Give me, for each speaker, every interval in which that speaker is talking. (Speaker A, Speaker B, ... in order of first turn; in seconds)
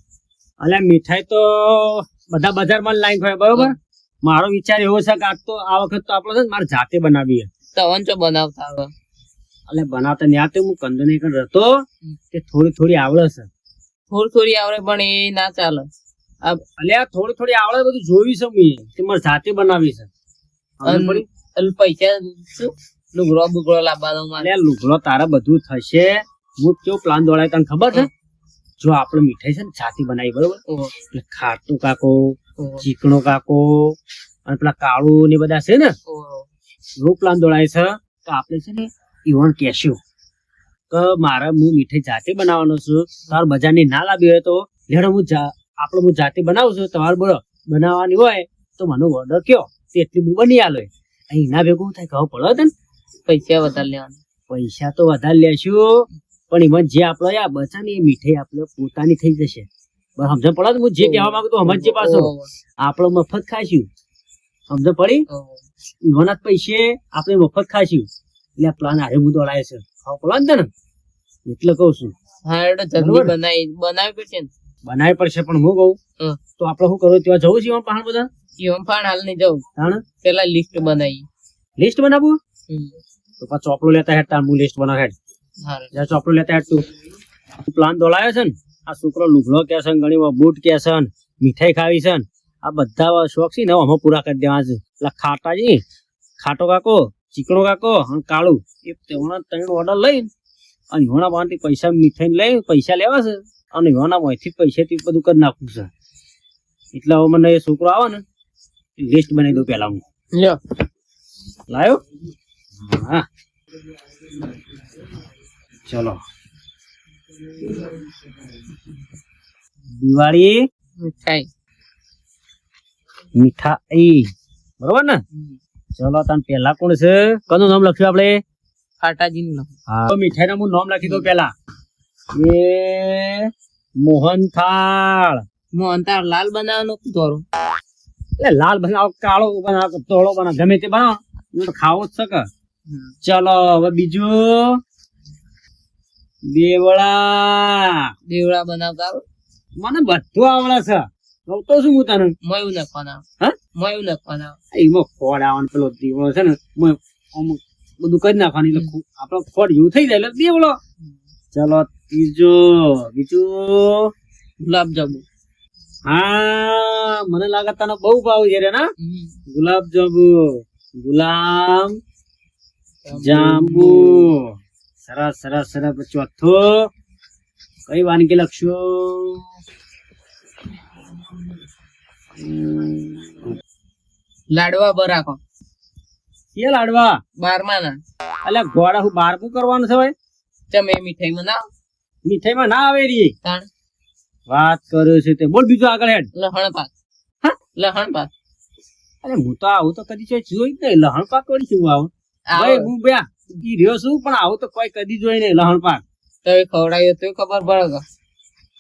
Speaker A: 0.6-7.5, 9.7-13.5, 16.8-20.1, 20.8-21.2, 24.4-28.1, 28.8-30.6, 31.1-36.0, 37.0-40.0, 40.9-52.7, 54.5-59.7, 60.2-62.3, 62.8-63.9, 64.7-65.2, 66.0-68.1, 68.6-70.7, 71.5-72.1, 73.0-73.3, 74.8-76.0, 76.6-78.3, 79.8-80.0, 81.8-82.4, 83.4-85.2, 85.9-86.8, 87.7-95.8, 96.4-100.3, 100.9-105.9, 106.9-108.2, 109.0-110.0, 111.7-112.0, 112.8-113.2, 115.9-116.2, 120.0-120.6, 123.3-125.2, 126.0-128.4, 129.9-131.5, 132.3-135.4, 138.4-142.5, 143.2-144.8, 146.5-148.1, 149.8-152.3, 154.7-160.8, 161.5-164.1, 166.1-168.9, 169.5-172.0, 173.2-174.4, 175.1-176.9, 177.9-179.4, 182.4-183.5, 186.6-187.2, 188.4-190.1, 192.2-193.3, 194.5-196.3, 199.2-206.0
Speaker B: 7.8-8.9, 14.1-15.9, 20.9-24.5, 30.7-30.9, 32.6-32.9, 36.1-36.5, 53.3-54.2, 61.0-62.5, 65.3-65.6, 72.5-74.5, 78.6-79.6, 80.2-81.2, 85.6-85.9, 110.3-110.6, 121.0-121.5, 129.0-129.7, 135.7-137.4, 148.3-149.2, 152.4-153.2, 153.8-154.6, 164.6-165.2, 169.0-169.3, 173.1-174.3, 184.5-185.4, 187.4-188.0, 190.7-191.7, 196.3-196.9, 197.7-198.3, 202.5-202.9, 206.4-208.0